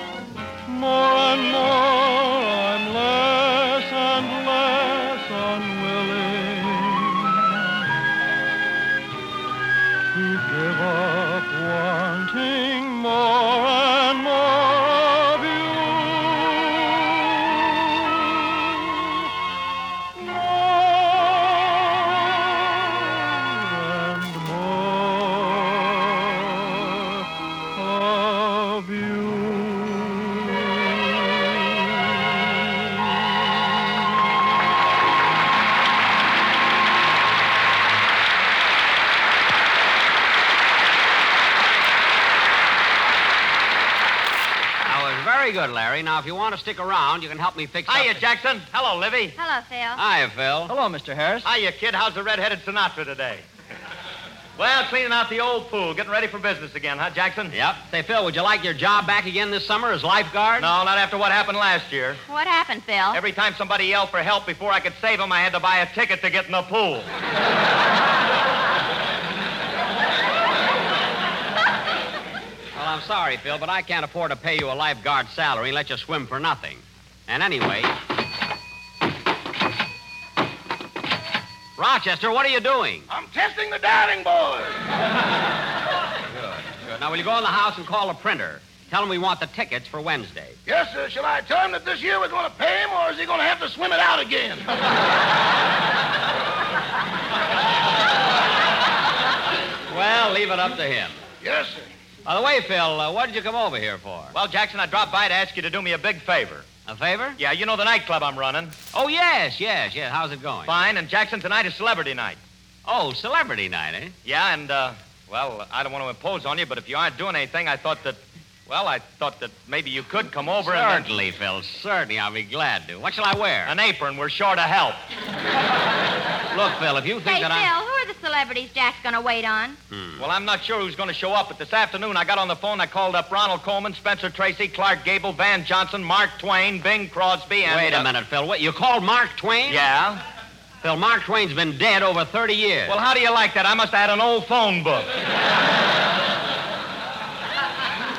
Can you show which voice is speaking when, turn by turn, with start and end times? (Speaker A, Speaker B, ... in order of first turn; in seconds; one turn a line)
Speaker A: 0.7-7.8
Speaker A: 10.1-19.3
Speaker A: 20.1-32.9
Speaker B: 44.9-48.3
Speaker C: 47.9-49.4
Speaker D: 49.4-50.0
Speaker B: 50.0-50.7
Speaker A: 50.7-51.5
Speaker C: 51.4-53.4
Speaker C: 54.6-57.5
Speaker B: 57.5-60.7
Speaker C: 60.6-62.2
Speaker D: 62.3-63.2
Speaker C: 63.1-67.1
Speaker B: 72.8-78.0
Speaker B: 81.8-83.1
Speaker E: 83.1-84.8
Speaker B: 86.3-90.6
Speaker E: 90.7-94.8
Speaker B: 99.9-101.2
Speaker E: 101.4-101.9
Speaker B: 102.2-104.4
Speaker C: 104.3-106.7
Speaker B: 106.9-107.4
Speaker C: 107.4-108.7
Speaker B: 108.9-110.8
Speaker C: 110.7-112.4
Speaker B: 112.8-114.2
Speaker C: 114.2-121.1
Speaker B: 120.6-123.8
Speaker C: 123.7-125.0
Speaker B: 126.5-127.7
Speaker D: 127.2-129.8
Speaker B: 129.9-130.3
Speaker C: 130.2-138.1
Speaker B: 137.7-139.8
Speaker C: 139.7-140.2
Speaker B: 140.8-143.0
Speaker C: 142.9-145.1